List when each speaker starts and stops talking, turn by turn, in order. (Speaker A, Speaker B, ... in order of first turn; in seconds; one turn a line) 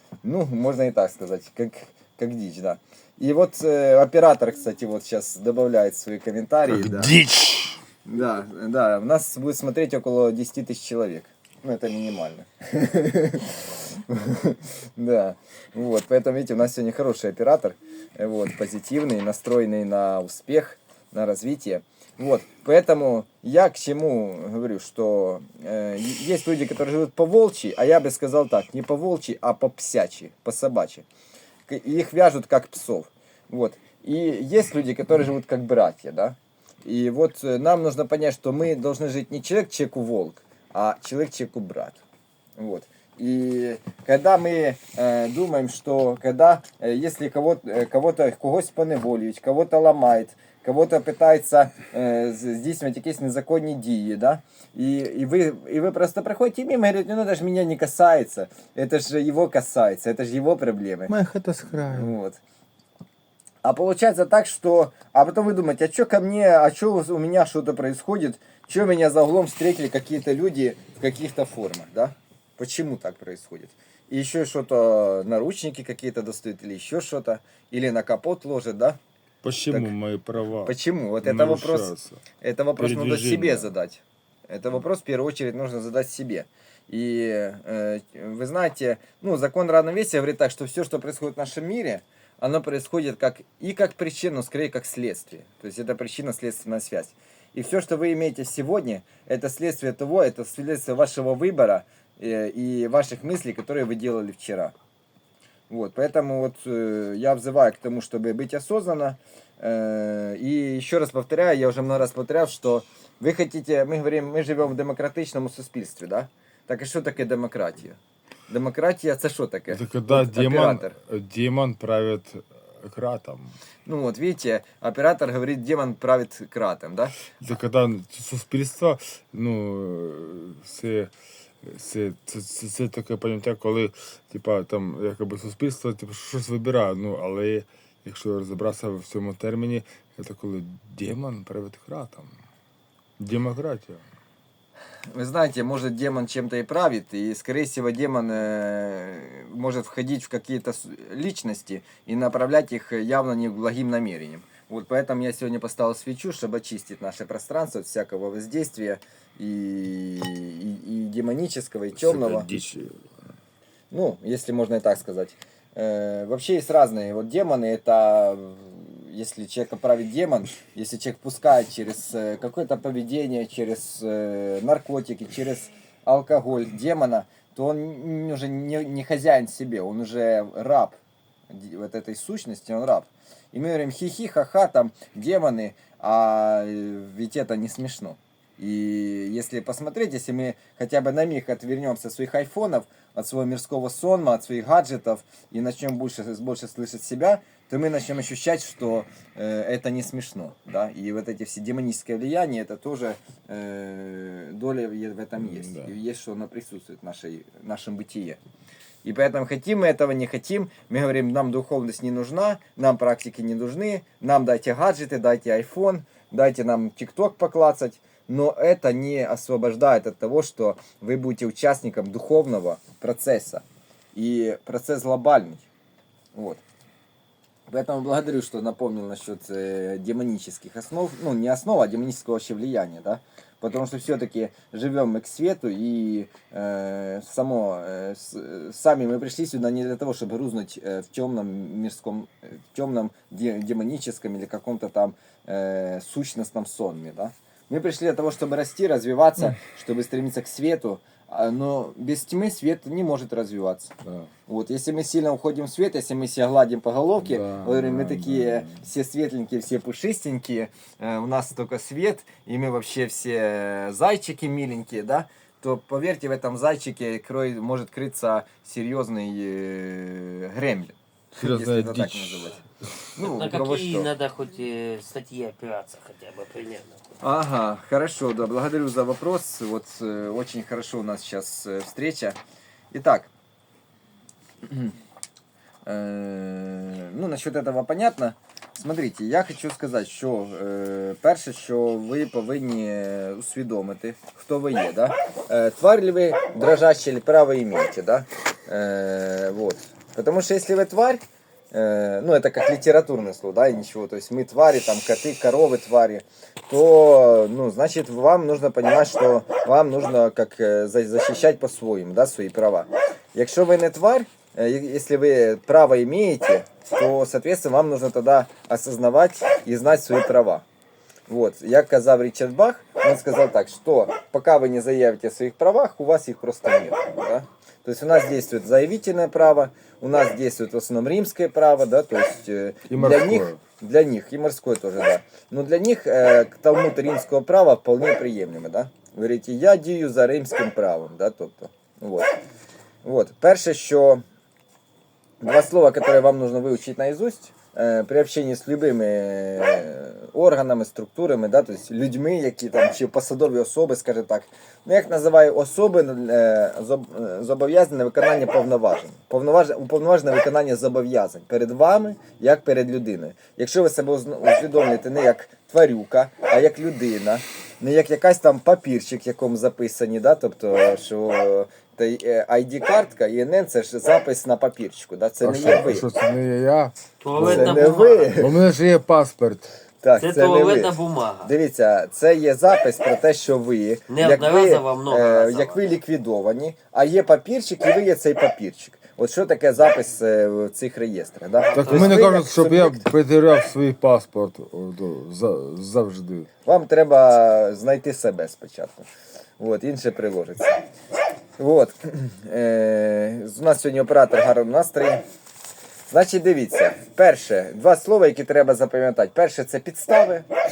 Speaker A: 0.2-7.2
Speaker B: 6.7-7.8
Speaker A: 8.0-31.1
Speaker A: 31.7-42.0
Speaker A: 42.6-61.1
Speaker B: 61.1-62.1
Speaker A: 61.8-62.4
Speaker A: 63.6-79.0
Speaker B: 79.4-82.2
Speaker A: 80.6-104.7
Speaker B: 82.8-83.7
Speaker A: 105.7-121.0
Speaker B: 119.7-123.5
Speaker A: 123.8-127.2
Speaker B: 127.3-131.1
Speaker B: 131.6-142.3
Speaker B: 143.2-144.0
Speaker A: 145.1-162.5
Speaker B: 161.9-163.0
Speaker A: 163.9-181.0
Speaker A: 181.5-208.4
Speaker B: 205.4-205.9
Speaker A: 209.0-225.6
Speaker A: 226.3-226.6
Speaker A: 227.7-253.9
Speaker A: 254.5-274.1
Speaker B: 257.2-258.8
Speaker B: 271.3-272.5
Speaker C: 273.2-277.1
Speaker A: 277.2-282.4
Speaker A: 282.9-283.3
Speaker A: 284.6-284.9
Speaker A: 285.9-301.2
Speaker A: 301.7-320.6
Speaker A: 321.3-342.3
Speaker B: 332.9-333.6
Speaker A: 343.0-344.2
Speaker A: 345.4-376.1
Speaker B: 375.4-377.8
Speaker C: 377.2-378.4
Speaker A: 377.4-378.6
Speaker B: 378.4-379.7
Speaker A: 380.0-393.1
Speaker C: 380.2-381.5
Speaker C: 384.1-385.9
Speaker C: 391.6-392.3
Speaker B: 391.7-396.5
Speaker A: 396.6-399.1
Speaker A: 399.6-400.8
Speaker A: 401.6-405.2
Speaker A: 406.1-410.5